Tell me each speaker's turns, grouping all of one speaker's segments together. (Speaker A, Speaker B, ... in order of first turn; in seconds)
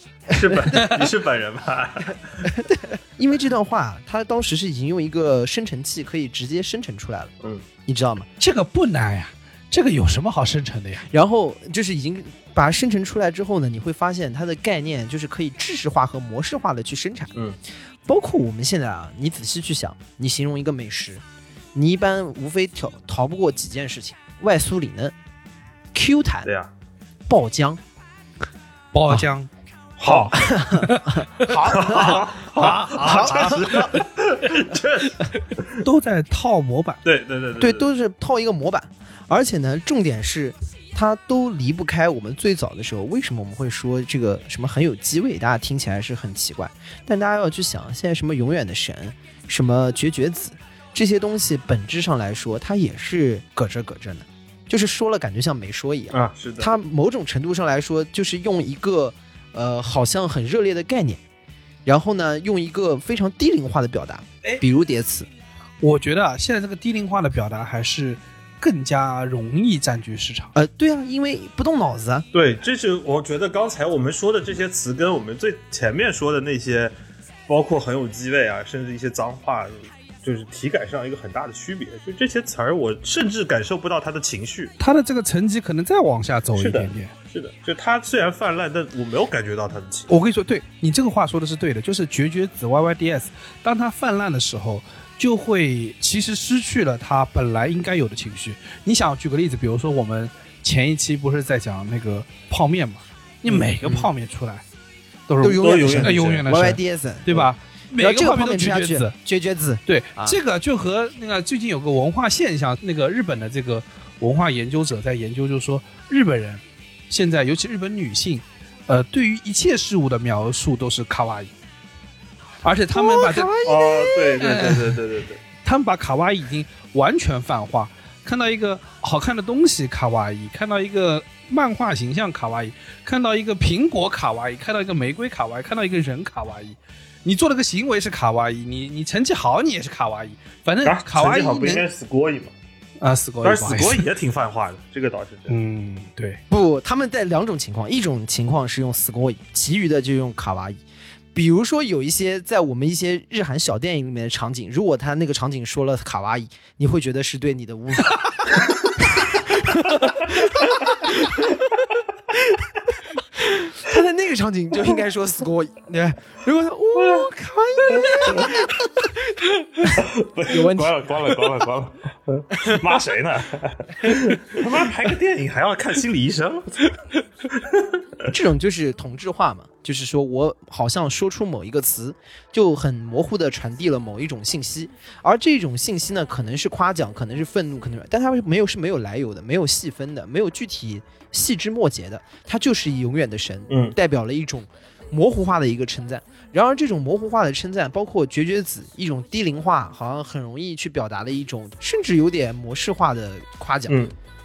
Speaker A: 0.3-2.5, 26.4-26.7, 30.0-30.5, 31.6-35.8, 37.0-37.9, 56.1-56.7, 72.3-76.9, 77.5-84.7, 86.5-90.1, 105.6-106.4, 123.6-125.4, 140.8-142.5, 143.4-145.5, 166.9-167.3, 167.9-168.7, 169.9-176.9, 177.5-177.9, 193.7-194.0
Speaker B: 2.5-7.3, 7.9-8.3, 11.1-17.3, 18.1-21.2, 21.7-25.1, 25.9-26.5, 27.3-27.8, 30.3-33.9, 37.6-61.2, 61.9-65.3, 70.5-72.3, 103.5-104.1, 105.4-110.4, 122.9-124.4, 146.5-150.8, 151.3-161.8, 162.3-162.7, 163.4-171.1, 178.3-204.0
Speaker C: 8.4-11.1, 28.9-29.5, 30.0-34.0, 35.8-37.0, 65.8-70.5, 84.8-87.1, 90.1-104.6, 105.3-109.1, 109.9-121.5, 122.6-123.5, 124.4-124.9, 125.6-141.8, 143.0-144.1, 145.5-146.4